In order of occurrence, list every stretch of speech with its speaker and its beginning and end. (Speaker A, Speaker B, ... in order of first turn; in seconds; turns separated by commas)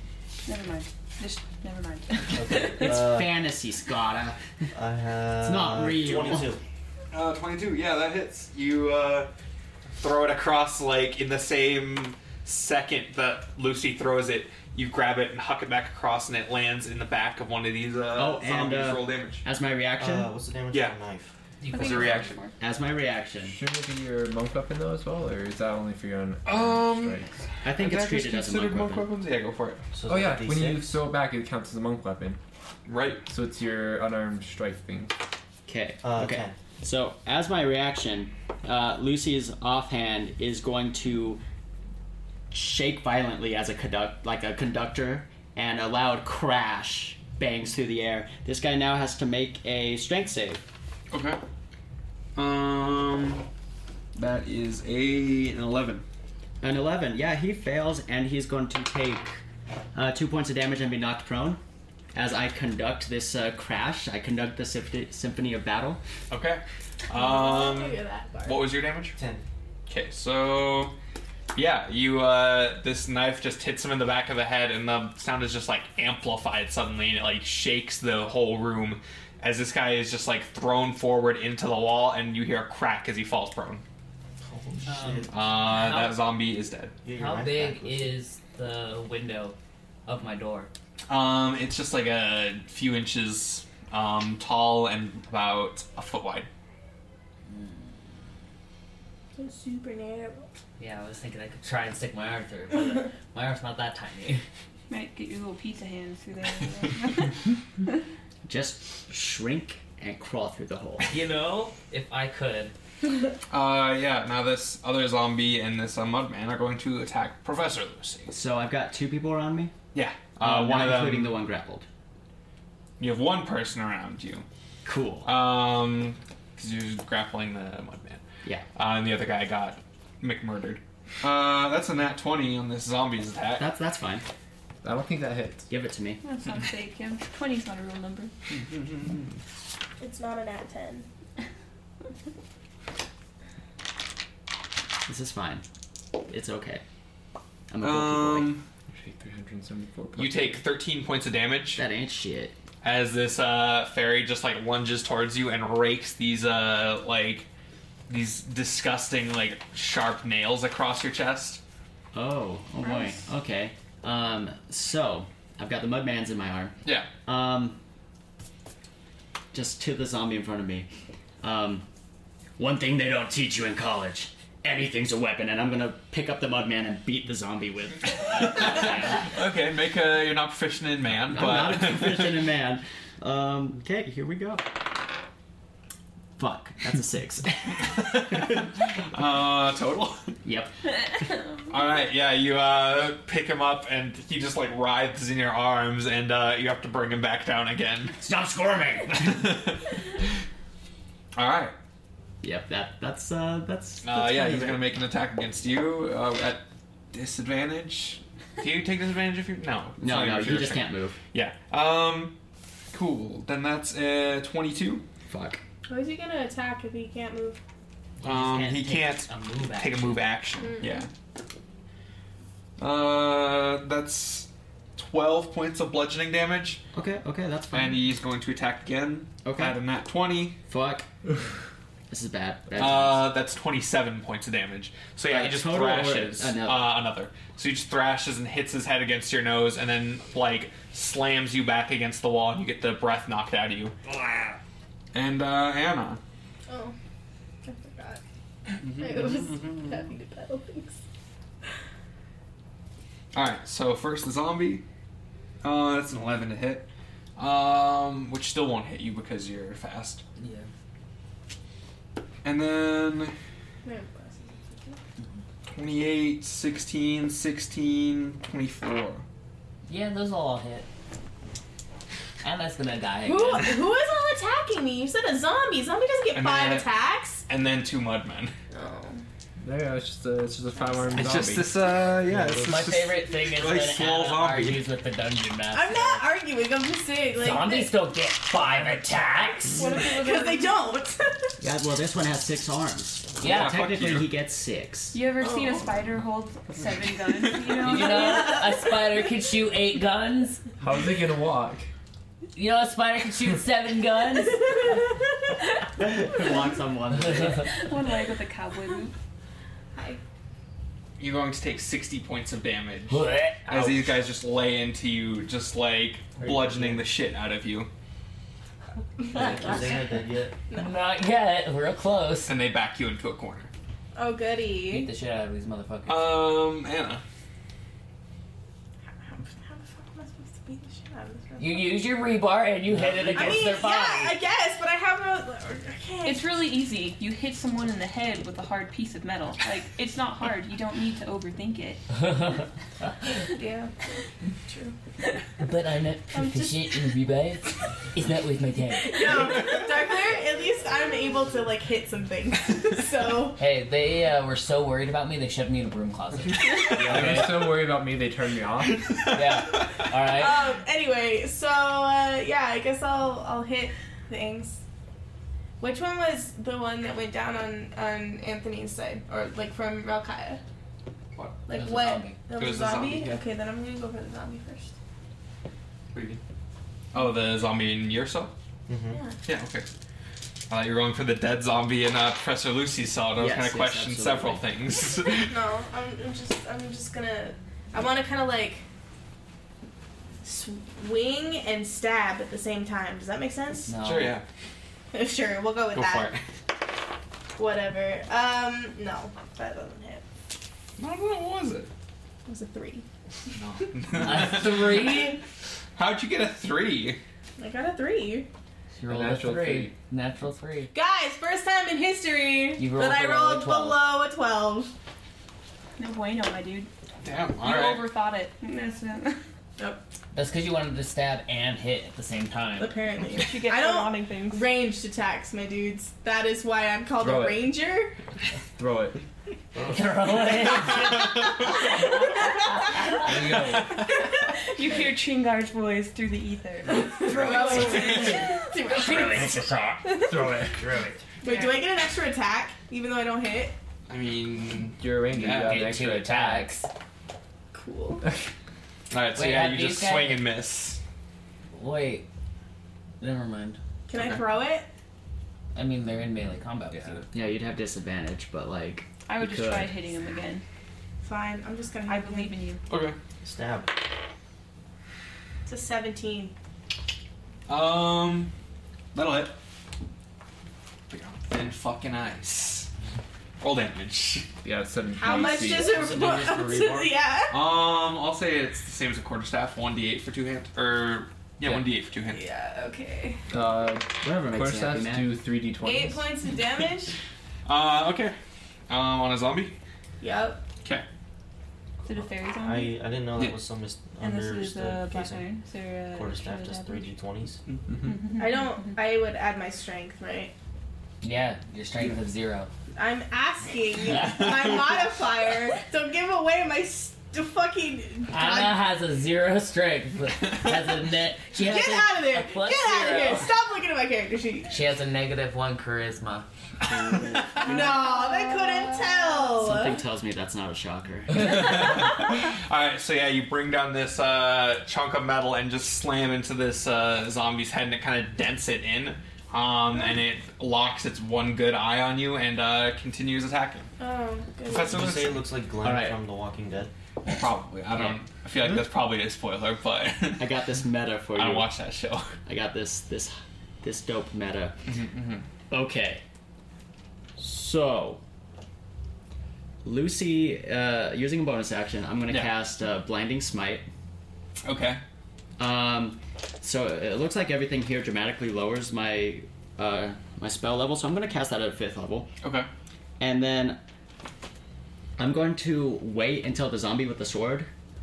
Speaker A: 0.5-3.0, Speaker B: 2.3-3.3, Speaker C: 2.8-4.4, Speaker B: 4.7-6.6, Speaker C: 5.4-6.5, Speaker D: 7.1-9.3, Speaker D: 10.0-19.4, Speaker C: 18.1-20.3, Speaker B: 20.0-21.3, Speaker D: 20.7-21.0, Speaker E: 21.6-22.3, Speaker A: 21.7-22.5, Speaker D: 21.7-22.4, Speaker C: 22.6-23.6, Speaker F: 23.4-27.3, Speaker D: 26.4-29.9, Speaker C: 27.6-29.1, Speaker B: 29.9-31.0, Speaker F: 30.1-32.4, Speaker D: 32.9-33.2, Speaker F: 33.2-35.1, Speaker C: 35.6-41.4, Speaker B: 36.0-36.5, Speaker C: 42.5-50.6, Speaker D: 51.1-51.4, Speaker D: 52.4-53.5, Speaker D: 54.1-56.0, Speaker C: 56.6-59.4, Speaker C: 59.9-61.6, Speaker C: 62.1-66.0, Speaker D: 66.3-69.2, Speaker G: 67.1-68.8, Speaker B: 69.1-69.4, Speaker D: 69.9-70.9, Speaker D: 71.5-83.8, Speaker B: 84.4-85.6, Speaker E: 84.8-86.2, Speaker D: 85.3-86.9, Speaker B: 87.0-88.1, Speaker E: 87.1-90.7, Speaker D: 91.1-96.5, Speaker E: 97.5-98.2, Speaker G: 99.4-100.5, Speaker E: 100.8-104.4, Speaker A: 104.9-107.5, Speaker C: 108.4-111.2, Speaker E: 111.1-112.7, Speaker D: 113.5-118.3, Speaker C: 118.3-119.7, Speaker D: 119.9-121.4, Speaker C: 120.4-121.8, Speaker D: 123.0-124.4, Speaker C: 124.8-125.3, Speaker D: 125.2-128.2, Speaker D: 128.7-133.7, Speaker C: 133.6-134.2, Speaker F: 134.8-135.7, Speaker C: 135.7-136.2, Speaker A: 136.2-138.3, Speaker D: 138.5-139.3, Speaker G: 140.0-141.1, Speaker C: 145.1-145.6, Speaker C: 146.3-146.8, Speaker C: 147.7-148.6, Speaker D: 147.8-148.6, Speaker F: 148.9-150.7, Speaker D: 150.2-151.8, Speaker C: 151.7-152.6, Speaker D: 152.8-157.5, Speaker D: 158.1-161.6, Speaker C: 162.1-167.8, Speaker A: 162.8-163.2, Speaker D: 166.8-167.1, Speaker C: 169.5-170.9, Speaker C: 171.4-171.8, Speaker C: 172.6-179.2, Speaker D: 178.3-182.4, Speaker C: 181.2-184.8, Speaker C: 186.4-188.6, Speaker D: 187.8-190.3, Speaker C: 190.4-190.7, Speaker D: 191.7-198.2, Speaker C: 198.2-199.6, Speaker D: 199.2-199.9, Speaker D: 201.3-201.7, Speaker C: 202.4-204.8, Speaker D: 204.0-212.3, Speaker C: 210.0-211.2, Speaker D: 212.9-215.0, Speaker C: 215.2-215.6, Speaker G: 215.9-217.6, Speaker E: 218.2-220.3, Speaker D: 218.2-221.1, Speaker G: 220.6-221.1, Speaker D: 222.8-226.8, Speaker C: 226.9-228.0, Speaker D: 227.7-230.6, Speaker C: 229.4-229.8, Speaker C: 230.7-231.1, Speaker C: 232.1-233.3, Speaker D: 232.8-243.9, Speaker C: 235.3-237.0, Speaker D: 245.1-246.2, Speaker G: 246.7-246.9, Speaker G: 247.6-248.2, Speaker G: 248.8-251.0, Speaker D: 248.8-249.9, Speaker D: 253.3-254.8, Speaker D: 255.6-260.2, Speaker E: 260.4-260.7, Speaker D: 262.4-263.3, Speaker G: 263.8-265.0, Speaker D: 265.7-269.2, Speaker E: 269.9-270.9, Speaker E: 272.4-273.8, Speaker G: 273.2-277.4, Speaker D: 276.3-276.9, Speaker D: 277.5-278.5, Speaker G: 278.7-279.2, Speaker F: 279.6-282.8, Speaker D: 281.1-284.9, Speaker E: 282.6-286.2, Speaker G: 285.7-287.9, Speaker E: 287.4-289.9, Speaker A: 289.7-290.9, Speaker G: 289.8-291.6, Speaker C: 291.6-295.2, Speaker E: 293.4-293.8, Speaker D: 293.4-294.3, Speaker A: 295.1-298.6, Speaker G: 295.4-295.8, Speaker E: 297.8-300.6, Speaker G: 298.1-298.5, Speaker F: 300.8-301.9, Speaker E: 302.5-305.0, Speaker C: 306.0-307.7, Speaker E: 307.4-307.6, Speaker A: 307.7-309.1, Speaker G: 309.9-310.2, Speaker D: 311.2-317.9, Speaker E: 313.1-314.0, Speaker E: 316.4-316.9, Speaker G: 319.2-320.1, Speaker B: 319.3-320.5, Speaker E: 320.7-322.6, Speaker D: 322.4-323.7, Speaker G: 324.1-325.1, Speaker E: 324.9-326.5, Speaker D: 326.1-327.2, Speaker G: 329.2-331.9, Speaker E: 331.6-334.4, Speaker G: 333.3-336.5, Speaker A: 336.2-342.0, Speaker E: 342.2-342.6, Speaker G: 343.5-344.1, Speaker G: 344.7-344.9, Speaker E: 345.6-349.6, Speaker G: 346.3-347.1, Speaker G: 348.9-353.6, Speaker E: 353.6-357.7, Speaker F: 356.9-359.1, Speaker E: 359.3-360.6, Speaker G: 360.1-364.8, Speaker G: 365.8-370.6, Speaker D: 371.3-371.6, Speaker G: 371.7-374.9, Speaker E: 371.7-372.4, Speaker D: 372.5-373.4, Speaker D: 376.1-376.4, Speaker D: 377.1-378.5, Speaker B: 378.9-379.2, Speaker G: 379.1-379.4, Speaker D: 379.4-379.9, Speaker D: 380.7-385.5, Speaker C: 383.4-384.6, Speaker G: 385.4-388.8, Speaker G: 390.4-393.9, Speaker E: 393.9-394.4, Speaker D: 394.0-394.4, Speaker G: 395.1-396.3, Speaker D: 395.9-396.4, Speaker G: 397.6-400.2, Speaker D: 401.0-401.9, Speaker G: 402.4-403.9, Speaker D: 403.5-405.3, Speaker E: 404.1-405.4, Speaker D: 405.9-407.2, Speaker G: 407.6-408.5, Speaker E: 408.9-410.9, Speaker F: 409.1-409.9, Speaker G: 410.9-414.9, Speaker E: 412.8-414.0, Speaker A: 416.0-416.9, Speaker D: 417.2-418.1, Speaker A: 417.6-419.4, Speaker E: 420.3-423.0, Speaker G: 422.8-428.1, Speaker A: 423.2-424.7, Speaker F: 427.2-427.6, Speaker F: 428.8-429.2, Speaker E: 429.8-431.7, Speaker G: 432.0-433.9, Speaker F: 433.2-434.0, Speaker A: 434.5-438.6, Speaker G: 436.9-440.7, Speaker D: 437.6-438.2, Speaker E: 437.6-441.2, Speaker G: 441.4-443.7, Speaker A: 441.4-441.8, Speaker D: 444.1-445.9, Speaker F: 445.0-446.8, Speaker E: 445.5-446.9, Speaker G: 447.7-448.2, Speaker D: 449.1-451.0, Speaker E: 449.3-450.5, Speaker E: 451.7-452.2, Speaker E: 453.2-453.8, Speaker G: 454.1-454.9, Speaker D: 454.1-454.4, Speaker E: 455.7-457.2, Speaker C: 457.3-459.9, Speaker A: 459.3-460.6, Speaker G: 461.2-462.5, Speaker A: 462.1-462.8, Speaker D: 462.9-463.2, Speaker B: 463.4-463.9, Speaker G: 465.6-466.5, Speaker D: 467.7-468.5, Speaker D: 469.1-469.6, Speaker D: 471.1-472.9, Speaker D: 473.6-474.5, Speaker F: 474.6-477.1, Speaker G: 475.1-477.8, Speaker D: 477.5-482.4, Speaker F: 481.6-481.9, Speaker G: 482.2-483.4, Speaker F: 483.5-486.3, Speaker C: 484.2-485.3, Speaker G: 485.8-487.1, Speaker D: 487.6-488.4, Speaker D: 488.9-489.8, Speaker G: 490.2-490.6, Speaker A: 492.0-493.0, Speaker B: 492.6-495.4, Speaker A: 494.2-497.1, Speaker B: 496.1-497.6, Speaker D: 497.7-498.3, Speaker A: 498.0-499.0, Speaker G: 498.3-500.5, Speaker E: 501.2-502.7, Speaker G: 502.9-508.9, Speaker E: 508.3-513.5, Speaker G: 511.5-514.7, Speaker E: 514.7-516.5, Speaker D: 516.9-517.7, Speaker G: 517.6-520.0, Speaker C: 519.6-521.6, Speaker D: 521.3-533.9, Speaker G: 534.0-535.1, Speaker D: 534.7-535.5, Speaker B: 534.9-536.9, Speaker C: 535.8-536.2, Speaker D: 537.2-540.5, Speaker C: 537.9-538.9, Speaker C: 540.4-541.7, Speaker D: 541.3-542.3, Speaker C: 542.5-544.8, Speaker D: 544.9-545.4, Speaker C: 545.7-546.2, Speaker C: 547.4-548.2, Speaker C: 549.8-553.9, Speaker D: 552.3-552.5, Speaker D: 554.6-555.0, Speaker C: 555.6-562.3, Speaker D: 562.4-562.7, Speaker C: 563.2-563.8, Speaker C: 565.2-567.7